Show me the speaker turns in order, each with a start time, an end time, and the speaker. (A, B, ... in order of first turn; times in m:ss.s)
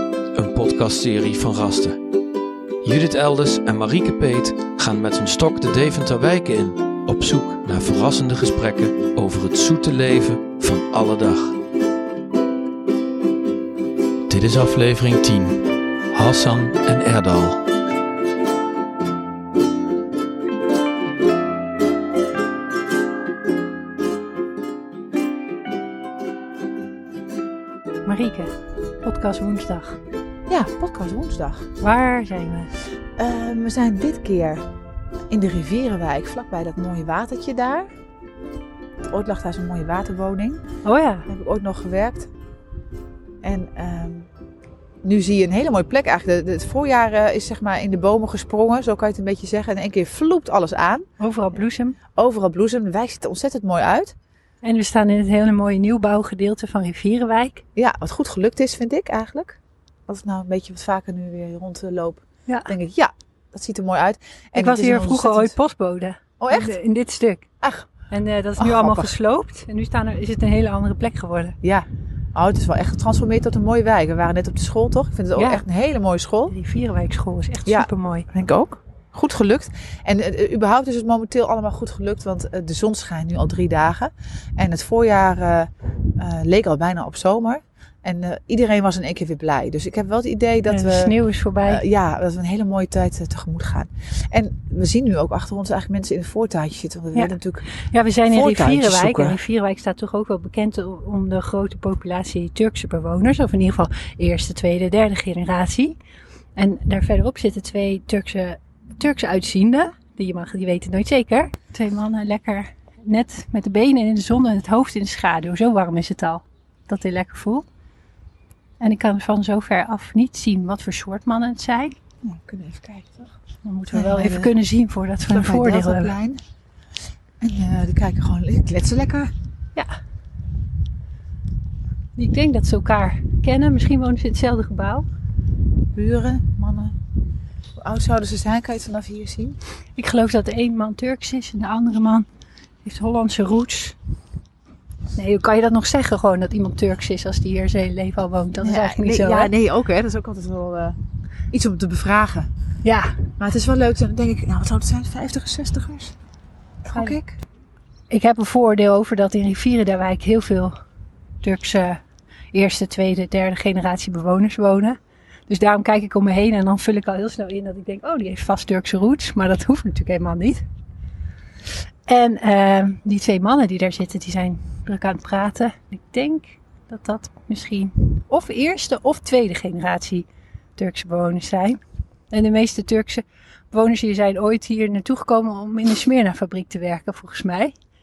0:00.3-0:02.0 A
0:02.8-0:11.6 A
0:14.3-0:17.6 A
0:28.0-0:28.5 B
0:29.0-0:30.0 B
0:30.5-0:31.7 C
0:31.8-0:32.7 B
0:33.2-0:34.6 C
0:35.3-0:37.9 C
0:39.1-0:40.6 C
0:40.8-0:41.2 B
0:41.2-0:42.3 C
0:43.4-0:44.3 C
0:45.0-0:51.1 C
0:51.2-0:52.0 B
0:52.1-0:54.1 C
0:54.6-0:57.6 B
0:57.8-0:59.6 C
1:00.1-1:05.5 C
1:02.5-1:02.7 B
1:04.6-1:07.5 B
1:06.4-1:06.8 C
1:07.6-1:07.9 C
1:08.1-1:11.6 B
1:08.6-1:09.1 C
1:11.6-1:16.5 C
1:15.4-1:15.6 B
1:16.5-1:18.3 B
1:17.6-1:31.1 C
1:30.7-1:31.8 B
1:31.6-1:37.7 C
1:37.9-1:46.0 B
1:38.3-1:39.4 C
1:46.6-1:57.6 B
1:58.8-2:02.0 B
2:02.2-2:03.3 C
2:03.6-2:06.1 B
2:03.9-2:04.5 C
2:05.3-2:06.4 C
2:07.4-2:09.3 C
2:12.2-2:15.0 B
2:15.9-2:16.9 C
2:17.8-2:19.6 C
2:20.0-2:22.2 B
2:22.8-2:24.0 B
2:25.1-2:29.5 B
2:28.6-2:31.0 C
2:31.5-2:32.5 C
2:32.8-2:33.2 B
2:33.4-2:36.1 C
2:36.8-2:37.4 C
2:38.1-2:40.8 B
2:41.4-2:42.0 B
2:42.5-2:50.6 B
2:52.1-3:01.8 B
3:02.3-3:07.7 B